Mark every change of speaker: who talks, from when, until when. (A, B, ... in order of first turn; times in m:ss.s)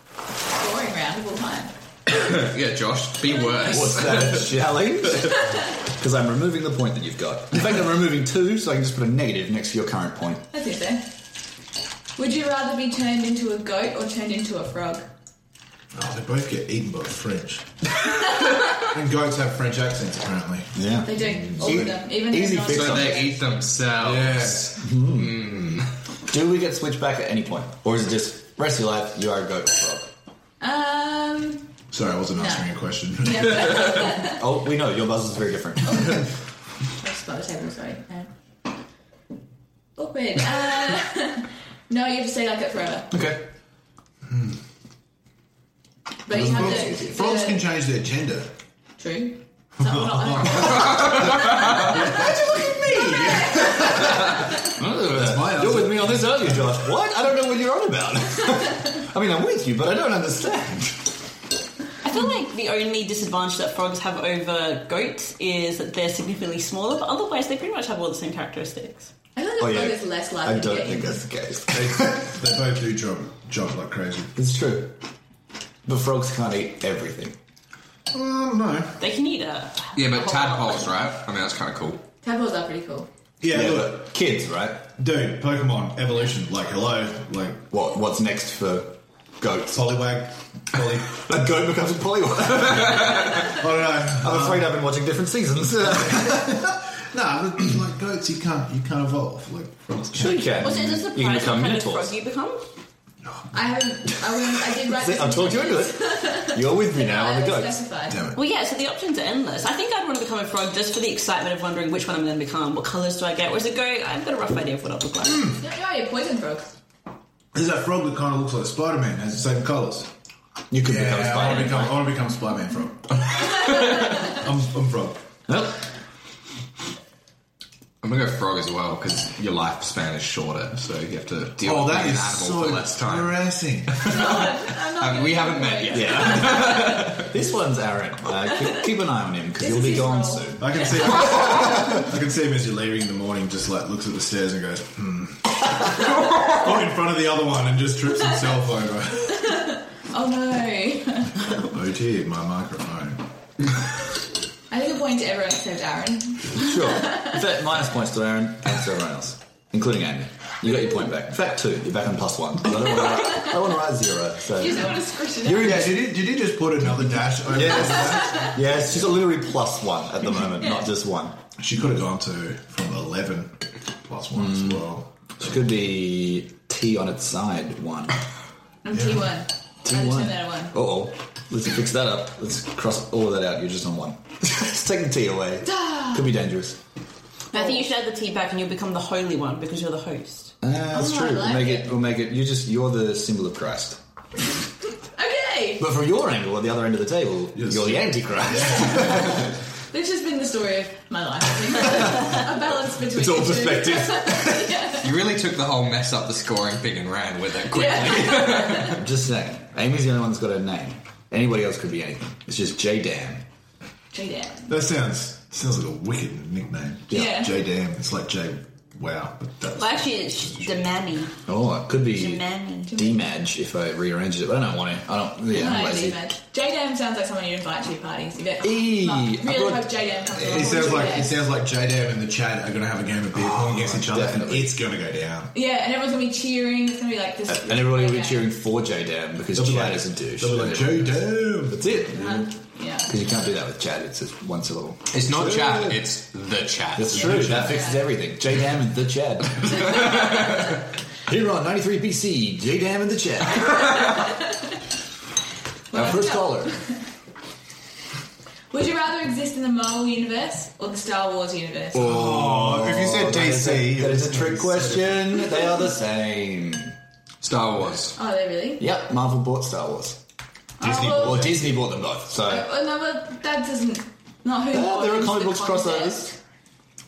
0:00.5-0:01.7 A
0:02.1-0:04.6 B
0:03.3-0:03.8 A
0:03.6-0:10.5 C
0:10.5-0:11.1 A
0:12.2-0:15.1 A
0:15.9-0:17.7 D
0:18.6-0:20.8 D
0:20.7-0:23.3 C
0:21.0-0:23.4 A
0:22.7-0:25.9 B
0:24.1-0:25.5 C
0:26.3-0:30.1 C
0:30.6-0:31.7 A
0:31.9-0:33.8 D
0:32.3-0:32.7 A
0:33.2-0:34.4 A
0:33.8-0:36.3 C
0:35.8-0:36.2 A
0:37.0-0:38.3 A
0:40.0-0:43.2 A
0:43.1-0:43.5 C
0:44.3-0:44.6 D
0:46.2-0:47.6 A
0:46.3-0:47.2 C
0:46.3-0:48.5 D
0:49.0-0:52.1 A
0:49.8-0:52.7 D
0:50.8-1:01.2 C
0:52.9-0:54.4 A
0:54.8-0:56.8 D
1:02.0-1:09.1 E
1:09.4-1:11.3 A
1:09.6-1:12.3 C
1:11.7-1:14.3 D
1:14.4-1:15.0 C
1:15.8-1:17.4 C
1:18.1-1:19.0 D
1:19.0-1:21.0 E
1:20.0-1:22.0 B
1:22.2-1:23.1 A
1:23.4-1:24.1 D
1:23.5-1:24.9 C
1:25.0-1:27.7 D
1:27.7-1:29.9 C
1:29.7-1:31.2 D
1:31.1-1:36.7 C
1:33.4-1:34.7 D
1:36.1-1:40.5 D
1:40.1-1:42.1 C
1:40.5-1:42.6 E
1:43.5-1:48.2 A
1:44.8-1:47.8 C
1:48.1-1:48.4 D
1:48.3-1:55.6 E
1:55.6-1:56.7 A
1:57.5-2:00.1 D
2:00.7-2:02.1 C
2:00.8-2:05.2 D
2:05.5-2:05.8 C
2:08.0-2:13.4 B
2:11.6-2:14.5 D
2:14.0-2:17.2 A
2:15.0-2:17.3 B
2:15.8-2:21.7 C
2:19.6-2:21.4 A
2:20.6-2:29.5 D
2:29.4-2:31.4 A
2:31.6-2:33.2 D
2:34.7-2:37.4 A
2:36.5-2:46.1 C
2:44.5-2:45.9 A
2:45.5-2:49.1 D
2:47.4-2:51.4 C
2:51.6-2:55.1 D
2:54.3-2:54.8 C
2:55.4-2:58.2 C
2:58.8-3:00.8 A
2:58.9-2:59.2 D
2:59.8-3:06.8 C
3:05.6-3:06.2 A
3:07.5-3:10.5 E
3:10.6-3:14.0 C
3:10.9-3:11.9 A
3:15.1-3:15.8 A
3:15.8-3:19.4 C
3:17.6-3:19.2 D
3:18.6-3:19.3 A
3:19.9-3:25.1 A
3:23.0-3:24.7 C
3:24.9-3:29.0 B
3:27.7-3:29.0 A
3:28.9-3:33.4 C
3:34.1-3:34.8 A
3:34.7-3:40.8 D
3:37.1-3:37.4 C
3:37.1-3:37.5 A
3:39.8-3:41.4 E
3:41.5-3:46.3 C
3:42.1-3:43.0 E
3:42.9-3:43.2 A
3:45.5-3:51.4 A
3:48.6-3:50.1 C
3:50.3-3:55.5 D
3:53.4-3:54.8 C
3:55.5-3:58.5 A
3:57.5-4:02.5 C
3:59.5-4:01.9 D
4:02.1-4:03.1 A
4:03.0-4:06.0 C
4:05.1-4:07.6 B
4:07.0-4:10.2 C
4:07.1-4:07.8 D
4:07.4-4:08.1 A
4:11.2-4:14.0 C
4:15.9-4:16.9 A
4:15.9-4:16.8 C
4:18.7-4:22.2 A
4:21.9-4:25.4 D
4:22.0-4:27.0 C
4:27.4-4:28.2 B
4:28.2-4:28.9 A
4:28.8-4:30.2 C
4:30.8-4:31.6 A
4:30.8-4:31.8 D
4:31.0-4:32.7 C
4:32.4-4:36.4 A
4:34.7-4:36.3 C